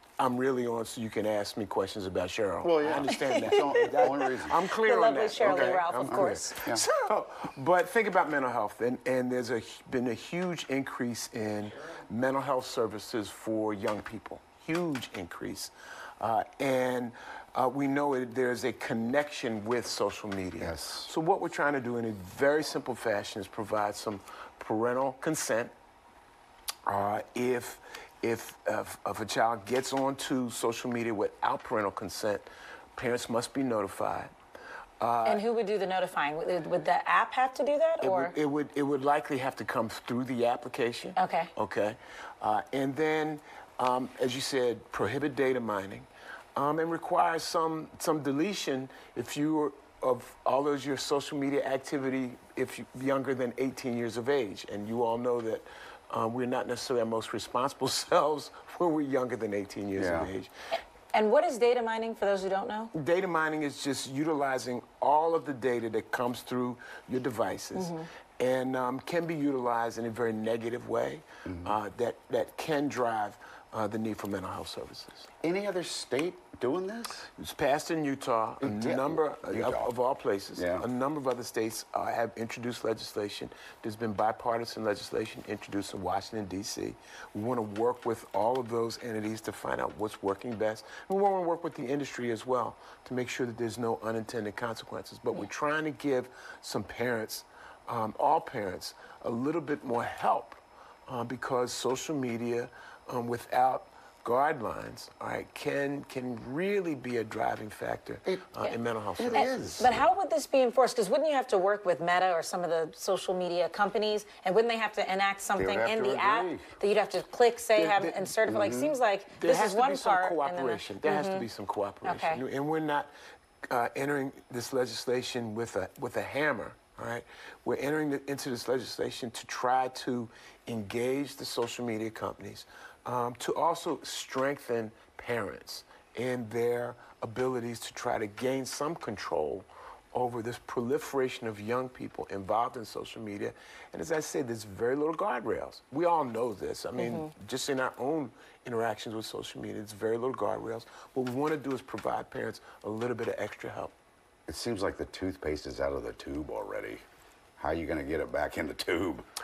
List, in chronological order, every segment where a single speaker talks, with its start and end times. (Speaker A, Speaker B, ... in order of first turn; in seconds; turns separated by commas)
Speaker A: 0.2-25.7, Speaker B: 2.6-4.6, Speaker C: 3.1-6.7, Speaker B: 5.4-6.8, Speaker B: 20.6-21.1, Speaker A: 26.9-34.3, Speaker A: 35.0-35.4, Speaker C: 35.2-38.4, Speaker A: 38.0-60.5, Speaker C: 41.2-41.5, Speaker B: 60.0-60.3, Speaker C: 61.1-62.9, Speaker A: 62.9-75.3, Speaker C: 67.8-68.1, Speaker B: 71.5-71.8, Speaker B: 75.4-77.3, Speaker A: 77.4-109.9, Speaker B: 78.6-79.9, Speaker B: 80.6-80.9, Speaker B: 109.2-110.0, Speaker C: 109.3-121.5, Speaker B: 115.6-116.7, Speaker A: 117.8-118.4, Speaker B: 118.5-119.0, Speaker A: 119.3-123.1, Speaker C: 122.0-122.4, Speaker A: 123.7-153.9, Speaker C: 147.0-147.3, Speaker B: 154.5-157.0, Speaker B: 157.6-159.3